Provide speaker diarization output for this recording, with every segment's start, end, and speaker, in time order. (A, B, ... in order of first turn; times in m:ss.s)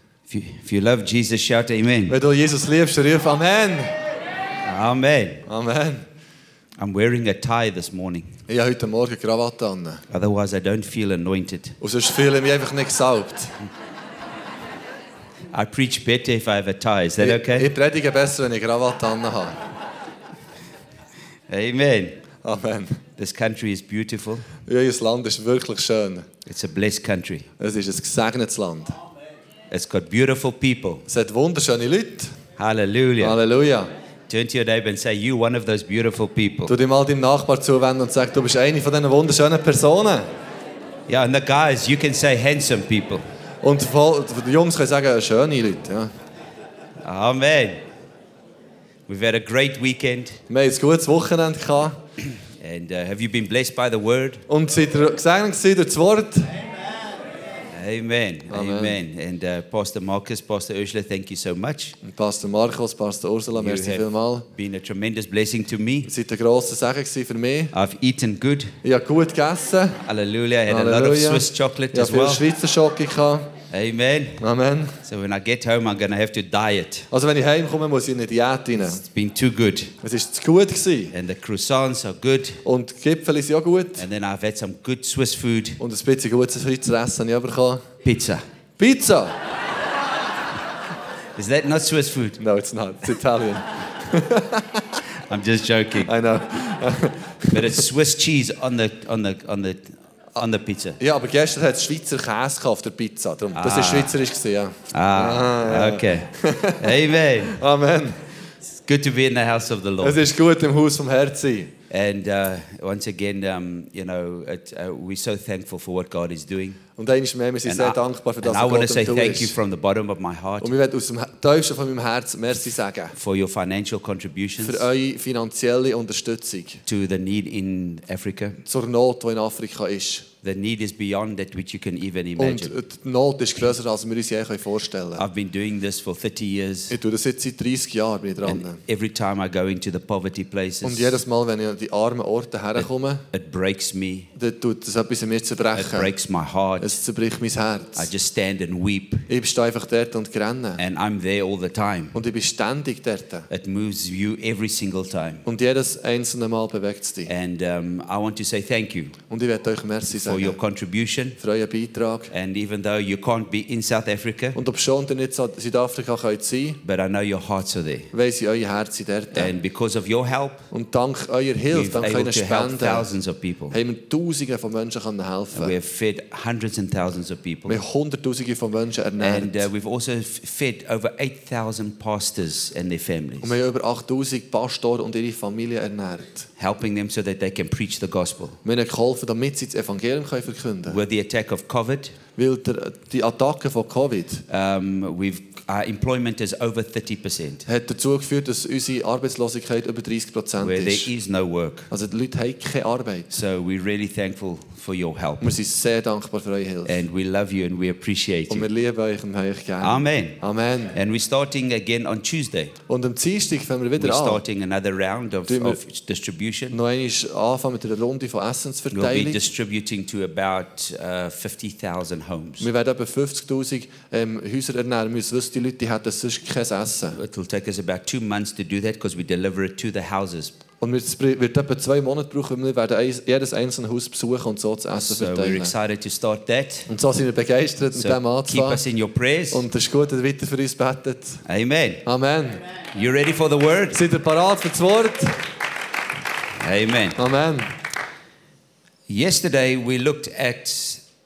0:00.3-0:02.2 A
0:02.1-0:04.0 B
0:04.6-0:05.4 A
0:05.4-0:06.0 B
0:06.8-0:08.3 A
0:08.5-0:10.0 B
0:10.1-0:11.8 A
0:11.8-0:13.5 B
0:15.5-0:17.7 A
0:17.2-0:19.6 B
0:21.5-0:22.2 A
0:22.4-0:23.0 B
0:23.2-0:24.5 A
0:24.6-0:26.2 B
0:26.4-0:27.5 A
0:27.6-0:29.0 B
0:29.7-0:31.0 A
0:31.1-0:32.3 B
0:32.6-0:33.4 A
0:33.2-0:33.9 B
0:34.3-0:36.7 A
0:36.7-0:40.2 B
0:41.1-0:43.2 A
0:43.6-0:46.1 B
0:47.0-0:47.8 A
0:49.1-0:50.4 A
0:50.5-0:52.0 B
0:52.6-0:54.4 A
0:54.5-0:56.5 B
0:57.7-1:02.0 A
0:58.5-0:59.0 B
1:02.0-1:04.4 B
1:03.5-1:06.1 A
1:06.1-1:07.7 B
1:07.7-1:08.8 A
1:08.8-1:10.0 B
1:10.0-1:12.4 A
1:10.7-1:13.5 B
1:13.7-1:14.4 A
1:14.4-1:15.0 B
1:15.0-1:17.1 A
1:17.1-1:19.0 B
1:19.0-1:19.9 A
1:20.0-1:21.1 B
1:21.1-1:22.6 A
1:22.6-1:24.0 B
1:24.0-1:25.8 A
1:25.8-1:27.8 B
1:28.0-1:28.4 A
1:28.8-1:29.4 B
1:31.4-1:32.4 A
1:32.4-1:35.0 B
1:35.3-1:36.1 A
1:36.0-1:37.8 B
1:37.5-1:41.0 A
1:41.0-1:48.2 B
1:43.6-1:44.1 A
1:44.9-1:47.6 A
1:48.8-1:50.2 A
1:50.0-1:51.7 B
1:51.9-1:56.8 A
1:57.0-1:59.6 B
1:57.6-2:00.7 A
2:00.6-2:03.1 B
2:03.1-2:04.8 A
2:04.6-2:06.8 B
2:06.8-2:08.6 A
2:08.6-2:10.3 B
2:10.4-2:12.7 A
2:12.4-2:15.2 B
2:15.2-2:17.0 A
2:16.9-2:18.8 B
2:18.4-2:21.2 A
2:20.8-2:23.2 B
2:23.3-2:24.3 A
2:24.4-2:26.1 B
2:25.7-2:26.9 A
2:26.8-2:28.1 B
2:28.0-2:29.3 A
2:29.3-2:30.8 B
2:30.8-2:32.2 A
2:32.1-2:33.5 B
2:33.5-2:35.4 A
2:35.4-2:37.3 B
2:37.3-2:39.2 A
2:39.3-2:40.6 B
2:40.1-2:41.4 A
2:41.4-2:42.3 B
2:42.3-2:44.6 A
2:44.5-2:46.8 B
2:46.8-2:48.1 A
2:48.1-2:49.5 B
2:49.3-2:50.6 A
2:50.7-2:53.1 B
2:51.7-2:53.8 A
2:53.7-2:55.7 B
2:55.5-2:57.8 A
2:57.7-2:59.7 B
2:59.2-3:03.5 A
3:03.4-3:06.5 B
3:06.6-3:08.6 A
3:08.6-3:11.0 B
3:10.9-3:12.2 A
3:12.4-3:14.4 B
3:14.5-3:17.6 A
3:17.6-3:21.1 B
3:20.6-3:21.9 A
3:21.9-3:23.3 B
3:23.3-3:25.5 A
3:25.4-3:27.0 B
3:26.8-3:28.7 A
3:28.5-3:30.9 B
3:29.8-3:30.4 A
3:30.9-3:32.7 A
3:32.9-3:34.4 B
3:34.0-3:36.8 A
3:35.5-3:35.8 B
3:36.7-3:39.4 B
3:38.9-3:42.7 A
3:42.6-3:47.2 B
3:47.1-3:50.6 A
3:50.8-3:55.7 B
3:54.9-3:56.9 A
3:56.9-3:58.8 B
3:57.9-3:59.6 A
3:59.5-4:01.4 B
4:01.4-4:02.0 A
4:02.0-4:02.6 B
4:02.9-4:04.0 A
4:03.9-4:05.4 B
4:06.6-4:07.2 A
4:07.2-4:07.7 B
4:09.1-4:11.0 A